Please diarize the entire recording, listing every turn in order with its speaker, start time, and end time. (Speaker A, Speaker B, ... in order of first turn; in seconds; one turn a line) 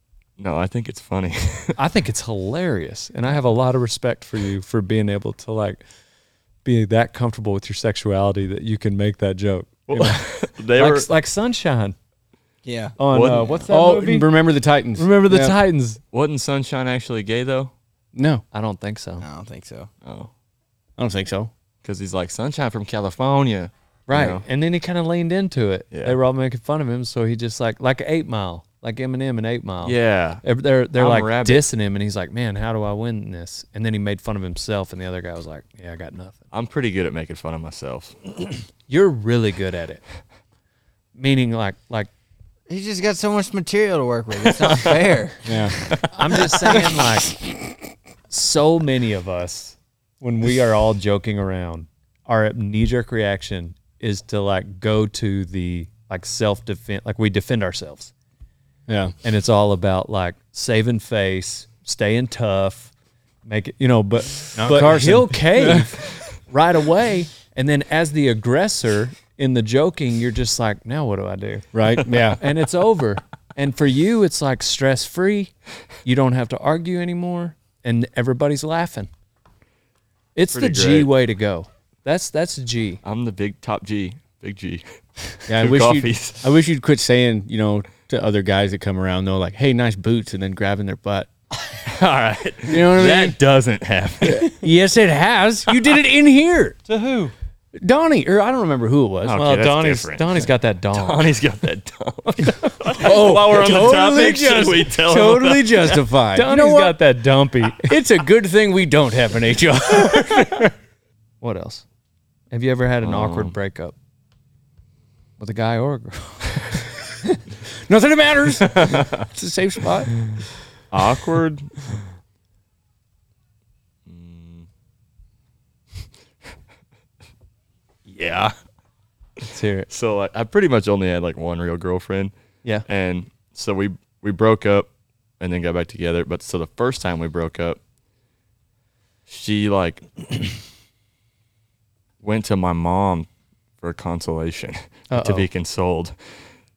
Speaker A: 0.4-1.8
Speaker B: 1.8-5.8
Speaker B: 6.6-11.9
Speaker A: 9.9-11.1
Speaker C: 12.6-13.0
Speaker B: 13.0-14.4
Speaker A: 13.1-13.6
Speaker D: 13.4-15.6
Speaker B: 14.9-16.0
Speaker A: 16.1-17.7
Speaker D: 18.1-18.4
Speaker B: 18.5-19.2
Speaker C: 19.2-19.9
Speaker A: 20.0-20.3
Speaker D: 21.0-21.5
Speaker A: 21.8-24.4
Speaker B: 24.1-36.5
Speaker A: 25.9-26.2
Speaker A: 29.8-30.4
Speaker A: 30.9-31.7
Speaker A: 36.5-38.2
Speaker B: 38.9-40.0
Speaker B: 41.1-42.1
Speaker C: 42.7-45.5
Speaker A: 44.5-44.9
Speaker D: 45.5-45.8
Speaker B: 46.1-47.4
Speaker B: 48.3-58.1
Speaker D: 58.9-59.1
Speaker B: 59.2-62.9
Speaker B: 63.5-79.1
Speaker D: 64.5-66.0
Speaker D: 71.7-72.4
Speaker B: 80.3-83.0
Speaker A: 80.5-81.1
Speaker A: 83.0-84.8
Speaker A: 85.4-86.5
Speaker D: 85.5-91.3
Speaker A: 91.8-94.6
Speaker D: 92.7-93.4
Speaker D: 94.4-96.8
Speaker B: 96.9-97.3
Speaker D: 97.7-99.4
Speaker A: 99.2-106.0
Speaker B: 99.3-101.3
Speaker D: 103.0-107.0
Speaker B: 106.3-108.0
Speaker D: 107.6-110.7
Speaker B: 111.4-111.8
Speaker B: 112.5-113.9
Speaker A: 113.0-113.5
Speaker B: 115.4-116.7
Speaker D: 117.7-120.2
Speaker A: 118.7-119.3
Speaker A: 120.9-121.7
Speaker A: 124.1-124.7
Speaker A: 128.1-128.6
Speaker B: 129.5-129.9
Speaker A: 129.9-132.3
Speaker A: 132.9-137.8
Speaker A: 139.3-140.5
Speaker A: 142.2-143.3
Speaker A: 143.8-146.4
Speaker B: 145.1-145.5